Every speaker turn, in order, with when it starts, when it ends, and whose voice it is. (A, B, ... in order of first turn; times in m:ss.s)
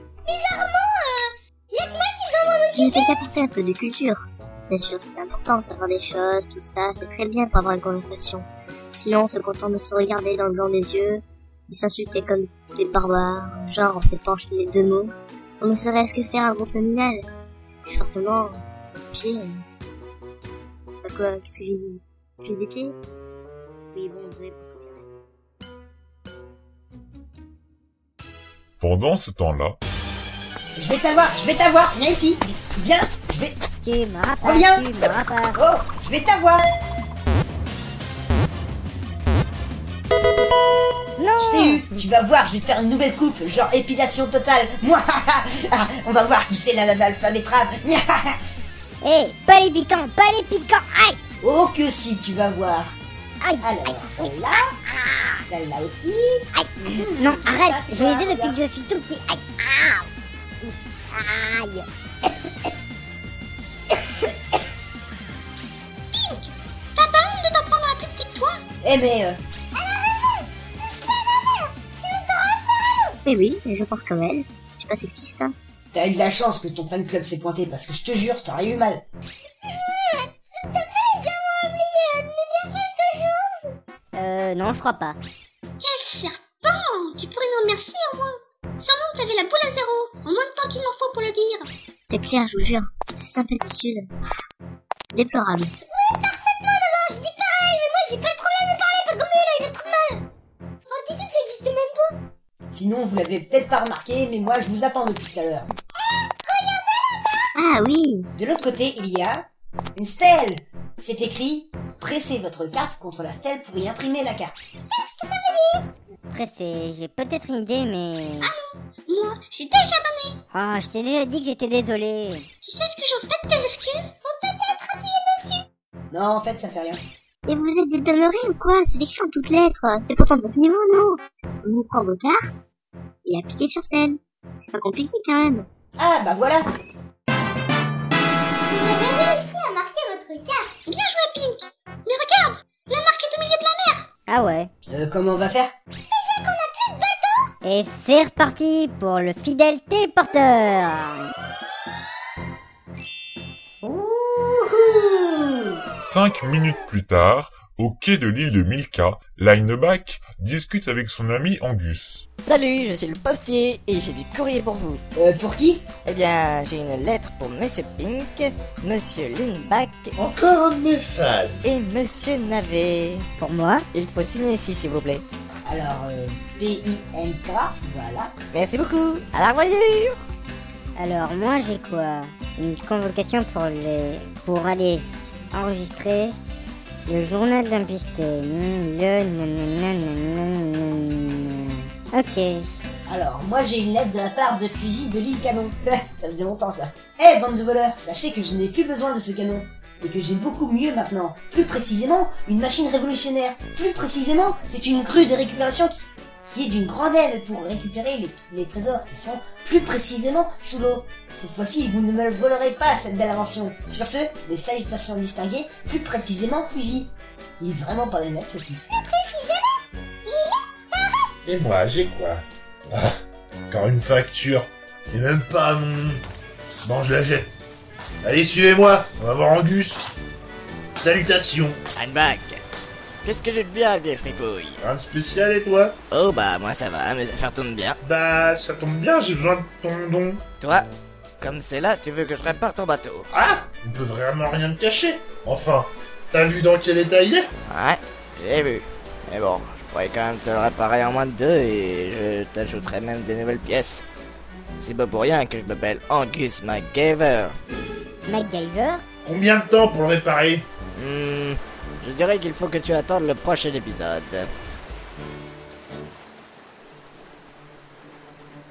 0:00.2-0:03.1 A
0:02.7-0:17.3 B
0:17.9-0:19.6 B
0:21.0-0:23.0 B
0:23.9-0:25.1 B
0:28.8-0:29.8 C
0:30.8-0:33.6 D
0:33.8-0:35.6 E
0:34.4-0:34.8 D
0:35.5-0:36.7 D
0:41.2-0:41.8 E
0:41.4-0:48.4 D
0:49.0-0:51.2 E
0:51.4-0:52.9 D
0:53.4-0:54.3 E
0:53.6-0:54.7 D
0:55.4-0:56.4 D
0:56.6-1:00.1 E
0:57.2-0:58.6 D
1:00.6-1:01.8 E
1:06.1-1:08.6 F
1:08.8-1:09.4 D
1:12.2-1:12.7 A
1:13.2-1:15.5 B
1:15.9-1:19.0 D
1:20.7-1:23.6 A
1:24.1-1:25.2 E
1:25.8-1:31.7 F
1:32.1-1:34.1 B
1:35.1-1:35.7 B
1:35.9-1:40.3 A
1:40.8-1:42.2 A
1:42.7-1:45.7 D
1:46.5-1:47.4 A
1:47.5-1:48.3 B
1:48.4-1:54.6 D
1:54.9-1:55.8 A
1:56.3-1:58.5 E
1:58.4-2:00.4 F
2:00.5-2:02.4 E
2:02.6-2:04.1 F
2:04.2-2:05.6 A
2:06.1-2:07.0 D
2:07.4-2:12.6 B
2:13.2-2:15.7 B
2:16.0-2:16.7 D
2:18.7-2:20.7 A
2:20.8-2:24.0 F
2:24.3-2:24.7 E
2:24.9-2:25.7 D
2:26.1-2:27.4 A
2:27.6-2:31.3 E
2:33.8-2:35.6 D
2:36.0-2:42.3 C
2:42.4-2:45.0 G
2:45.1-2:45.8 D
2:46.0-2:50.1 G
2:50.2-2:51.6 H
2:51.6-2:53.2 G
2:53.4-2:53.8 E
2:53.9-2:55.2 G
2:55.6-2:58.3 D
2:58.5-3:00.2 G
3:01.0-3:06.3 E
3:07.0-3:12.6 E
3:13.1-3:38.8 D
3:38.9-3:39.7 A
3:40.2-3:41.2 A
3:41.4-3:43.1 H
3:43.7-3:46.2 H
3:46.8-3:47.6 H
3:48.2-3:50.0 H
3:50.9-3:51.8 H
3:52.0-3:52.6 G
3:53.2-3:54.7 G
3:54.8-3:56.0 H
3:56.1-3:58.0 G
3:58.0-4:00.4 H
4:00.6-4:00.8 G
4:01.4-4:03.2 G
4:03.3-4:07.5 H
4:07.7-4:14.0 G
4:14.8-4:17.5 G
4:18.3-4:19.0 E
4:19.2-4:20.6 H
4:21.0-4:24.5 G